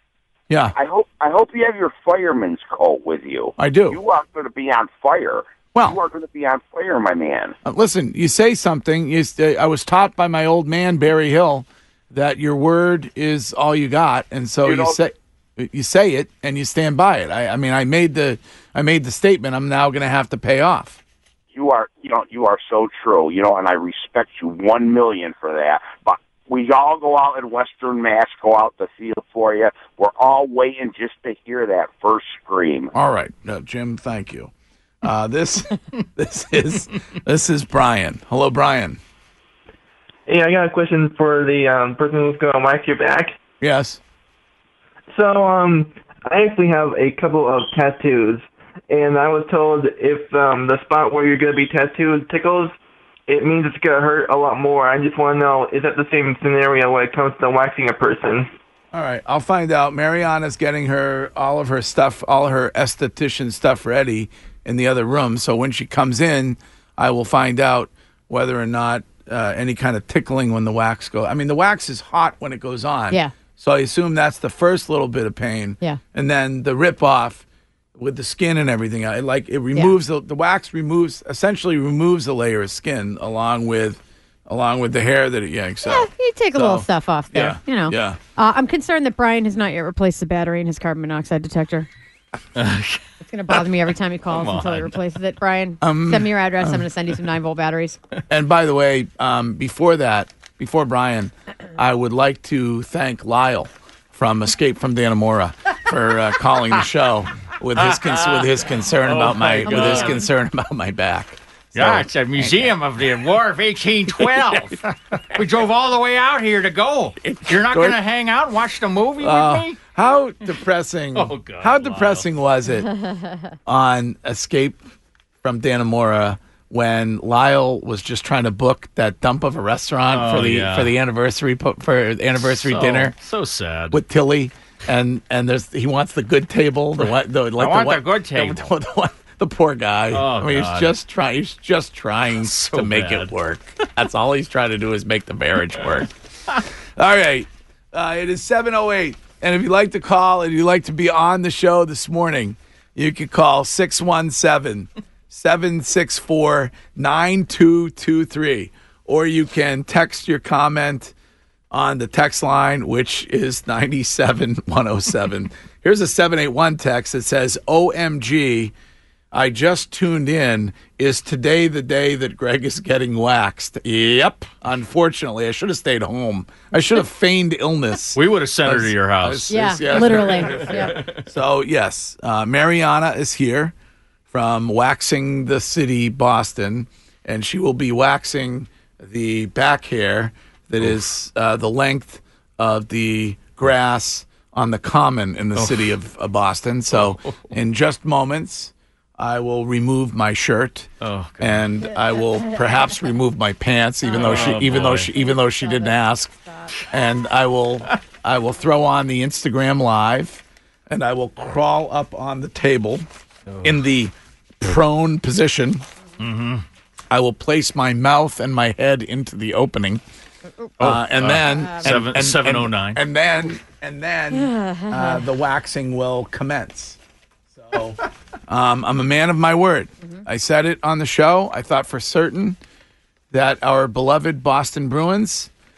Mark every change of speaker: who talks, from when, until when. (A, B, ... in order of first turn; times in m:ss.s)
0:00.5-0:00.7 A
0:00.7-0:07.6 B
0:03.6-0:04.0 A
0:05.7-0:06.0 A
0:07.6-0:21.0 A
0:14.6-0:15.0 B
0:21.5-0:32.9 B
0:32.9-0:39.0 A
0:40.3-0:43.4 C
0:43.6-0:44.0 A
0:45.1-0:52.7 C
0:53.3-0:58.5 C
0:58.9-1:17.4 A
1:18.0-1:28.2 A
1:25.8-1:31.9 D
1:32.6-1:33.6 E
1:33.2-1:38.0 D
1:34.3-1:35.0 E
1:35.8-1:36.8 A
1:38.3-1:52.7 A
1:47.8-1:50.3 E
1:49.8-1:50.2 D
1:51.7-1:59.8 E
1:57.2-1:58.0 A
1:59.2-2:03.0 A
2:01.1-2:02.2 E
2:03.6-2:04.8 A
2:05.4-2:13.1 A
2:10.1-2:10.9 E
2:12.6-2:14.0 E
2:13.9-2:26.1 A
2:17.6-2:18.7 E
2:20.1-2:21.0 E
2:22.4-2:23.3 E
2:27.0-2:41.1 A
2:41.7-2:48.7 A
2:49.3-3:03.7 A
2:58.1-3:01.2 E
2:59.5-3:01.0 D
3:04.3-3:26.3 A
3:15.6-3:15.9 E
3:16.9-3:17.4 E
3:21.0-3:21.6 E
3:22.0-3:23.0 D
3:24.0-3:26.7 D
3:24.2-3:25.1 E
3:26.9-3:33.0 A
3:33.6-3:35.8 A
3:36.2-3:36.6 E
3:37.1-3:40.0 A
3:40.8-3:47.0 A
3:40.8-3:43.0 E
3:44.3-3:45.2 D
3:47.5-3:52.6 A
3:53.3-3:55.5 A